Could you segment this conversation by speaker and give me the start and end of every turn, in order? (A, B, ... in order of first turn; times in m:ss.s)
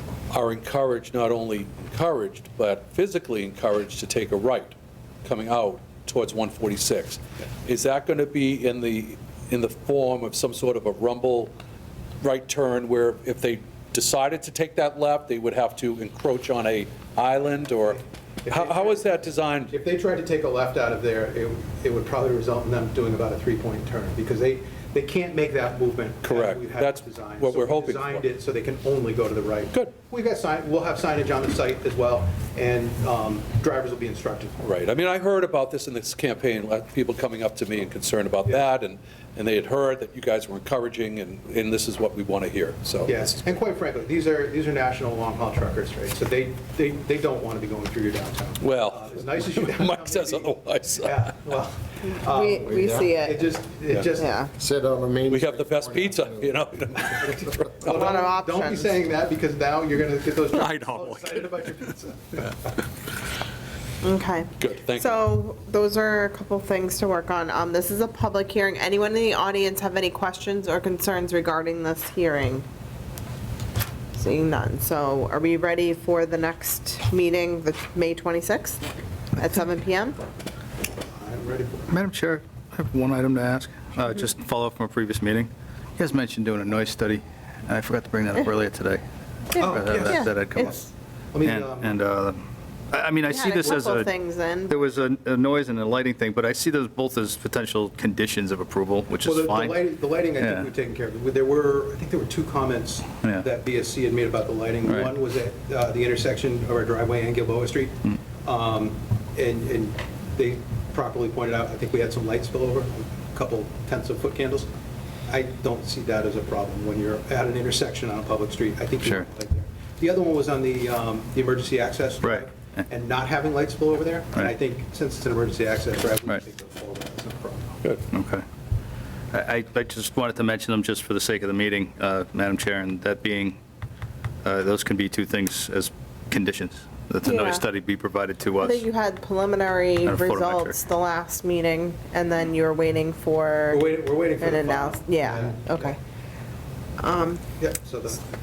0:00.3-0:11.5 A
0:12.2-0:19.7 A
0:17.6-0:19.1 B
0:19.7-0:34.6 B
0:26.2-0:28.3 A
0:34.6-0:43.3 A
0:43.0-0:54.4 B
0:48.6-0:51.3 A
0:52.1-0:53.5 C
0:52.6-0:53.1 D
0:54.1-0:54.5 C
0:54.6-0:57.0 D
0:55.3-0:58.0 A
0:57.3-1:02.8 B
0:57.9-0:58.9 C
1:00.5-1:01.7 A
1:04.0-1:12.6 C
1:04.6-1:05.2 A
1:14.2-1:18.8 C
1:19.4-1:20.2 C
1:21.1-1:21.9 B
1:21.9-1:29.0 E
1:29.5-1:30.8 E
1:29.5-1:30.4 C
1:29.6-1:32.0 B
1:31.4-1:34.1 E
1:33.3-1:34.8 C
1:34.7-1:39.8 E
1:39.2-1:54.7 B
1:40.4-1:40.7 E
1:44.9-1:45.1 E
1:55.3-2:07.8 B
2:02.2-2:02.8 E
2:08.1-2:08.4 E
2:09.3-2:13.6 E
2:14.4-2:18.8 E
2:17.2-2:17.6 C
2:18.6-2:23.8 C
2:20.0-2:20.8 E
2:23.7-2:25.9 B
2:24.4-2:26.0 C
2:27.0-2:27.4 C
2:27.6-2:28.2 B